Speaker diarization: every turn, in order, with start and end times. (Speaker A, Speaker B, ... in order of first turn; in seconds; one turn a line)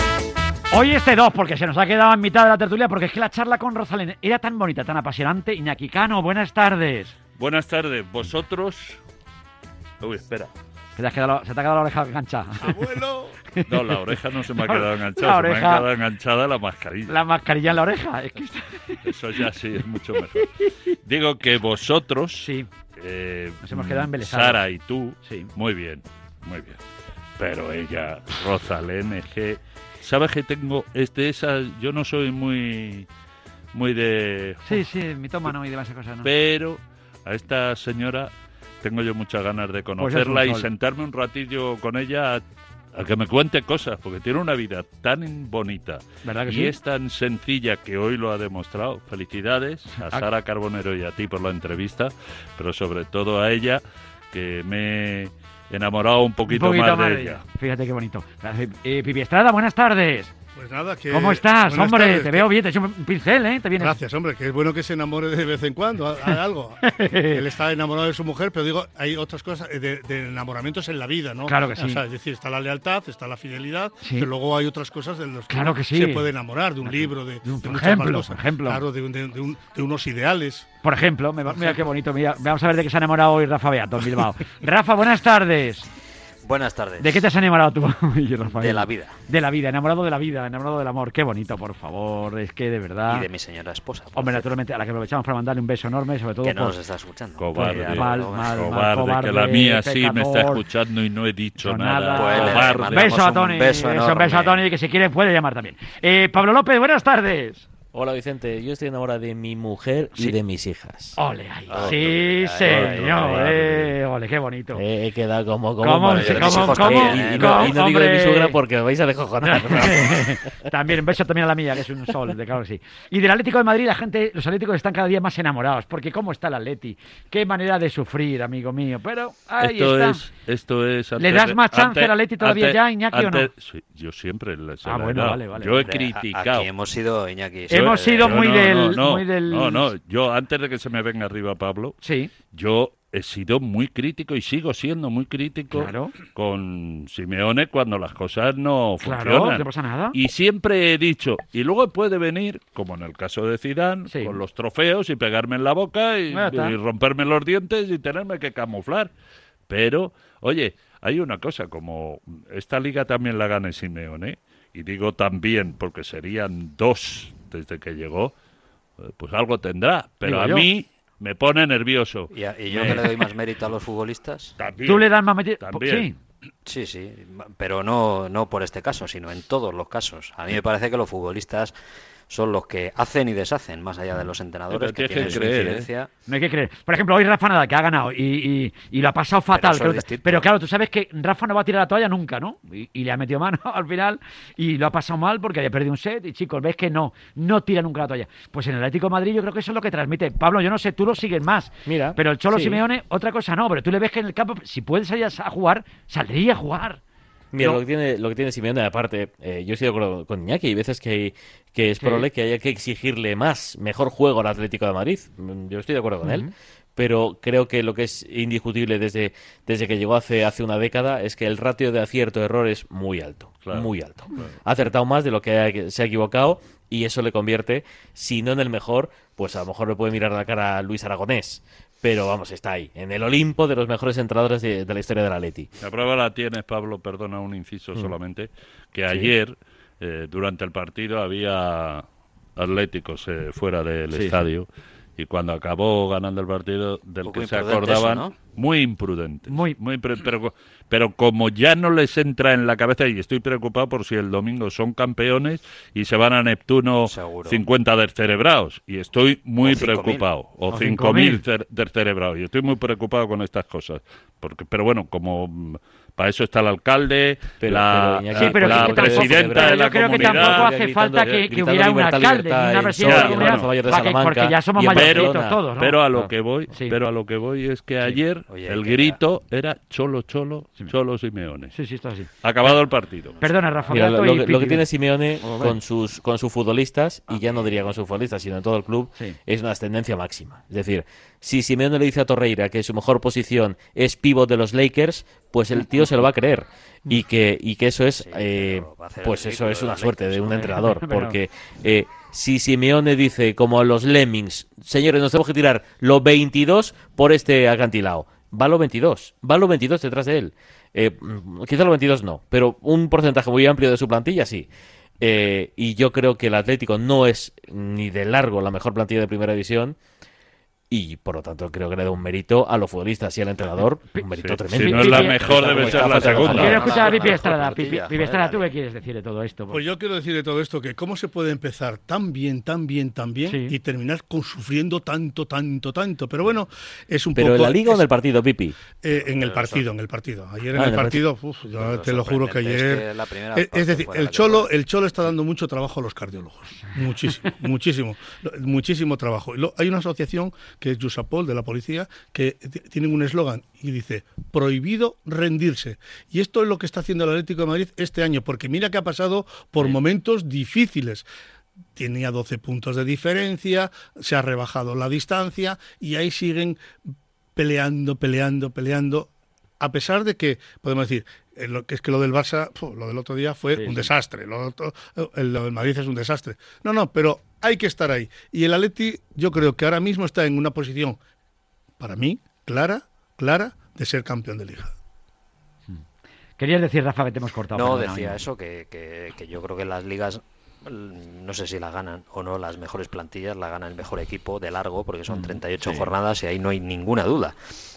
Speaker A: 0.7-7.1
Speaker B: 7.4-9.0
Speaker B: 10.0-10.5
Speaker A: 10.9-12.8
Speaker C: 12.5-13.4
Speaker A: 13.5-14.0
Speaker B: 13.7-17.2
Speaker A: 14.5-15.8
Speaker A: 17.1-19.4
Speaker B: 19.0-26.8
Speaker A: 22.4-22.7
Speaker A: 23.6-24.6
Speaker A: 25.2-25.5
Speaker B: 27.4-33.1
Speaker B: 33.7-34.9
Speaker A: 34.6-36.3
Speaker B: 36.2-42.4
Speaker A: 40.0-40.7
Speaker B: 42.9-57.4
Speaker A: 46.2-46.7
Speaker A: 50.0-50.3
Speaker A: 56.5-60.3
Speaker C: 60.5-62.5
Speaker A: 61.1-64.0
Speaker C: 63.8-80.7
Speaker A: 66.2-67.4
Speaker A: 71.5-72.0
Speaker A: 74.0-74.3
Speaker A: 75.5-76.3
Speaker A: 76.8-78.8
Speaker A: 80.8-85.9
Speaker D: 86.4-87.1
Speaker A: 87.0-93.3
Speaker D: 88.5-89.1
Speaker D: 93.1-94.5
Speaker A: 94.2-96.8
Speaker D: 96.4-98.5
Speaker B: 97.4-103.1
Speaker A: 97.5-100.6
Speaker A: 101.6-107.6
Speaker D: 102.1-104.6
Speaker E: 107.9-111.2
Speaker A: 111.2-114.8
Speaker D: 111.7-113.3
Speaker B: 111.7-112.1
Speaker B: 112.6-113.9
Speaker E: 114.7-120.5
Speaker A: 115.8-118.6
Speaker D: 116.1-117.8
Speaker A: 119.4-130.2
Speaker B: 129.6-136.7
Speaker A: 131.2-133.5
Speaker A: 134.8-135.9
Speaker D: 135.8-138.4
Speaker A: 137.7-139.9
Speaker B: 137.8-142.0
Speaker A: 142.0-142.3
Speaker B: 142.5-159.1
Speaker A: 145.7-146.1
Speaker A: 149.0-150.2
Speaker A: 154.1-154.4
Speaker A: 156.3-156.8
Speaker B: 159.7-168.3
Speaker B: 169.0-173.0
Speaker A: 170.2-170.7
Speaker D: 172.3-174.6
Speaker A: 172.7-173.1
Speaker B: 174.6-176.1
Speaker A: 174.8-176.1
Speaker D: 176.7-181.7
Speaker D: 182.3-186.1
Speaker B: 184.7-185.9
Speaker A: 186.3-207.0
Speaker D: 189.5-190.5
Speaker E: 201.8-202.8
Speaker E: 207.5-235.7
Speaker A: 207.6-207.8
Speaker A: 212.0-212.3
Speaker A: 216.2-216.5
Speaker B: 223.6-224.5
Speaker B: 235.8-242.0
Speaker B: 242.6-270.7
Speaker D: 247.2-248.3
Speaker A: 249.5-249.8
Speaker D: 257.0-257.6
Speaker D: 259.6-260.2
Speaker A: 260.7-261.4
Speaker E: 267.6-275.6
Speaker A: 268.3-276.0
Speaker B: 273.0-273.7
Speaker B: 274.8-281.7
Speaker D: 278.5-279.2
Speaker A: 281.7-282.8
Speaker B: 282.4-283.4
Speaker D: 283.4-283.8
Speaker A: 283.4-284.9
Speaker E: 283.9-314.7
Speaker A: 285.4-285.8
Speaker D: 287.3-287.7
Speaker D: 298.1-300.7
Speaker A: 300.5-301.4
Speaker E: 315.2-320.0
Speaker E: 320.9-327.5
Speaker A: 324.1-329.8
Speaker B: 324.4-327.0
Speaker D: 325.4-328.7
Speaker C: 329.7-338.1
Speaker A: 333.4-333.8
Speaker E: 337.4-338.8
Speaker C: 339.0-361.2
Speaker D: 339.1-339.8
Speaker E: 340.7-341.2
Speaker D: 341.8-344.7
Speaker C: 361.9-366.8
Speaker C: 367.6-381.2
Speaker A: 373.7-374.1
Speaker C: 382.0-384.9
Speaker A: 386.6-388.4
Speaker D: 387.7-397.6
Speaker A: 395.3-395.5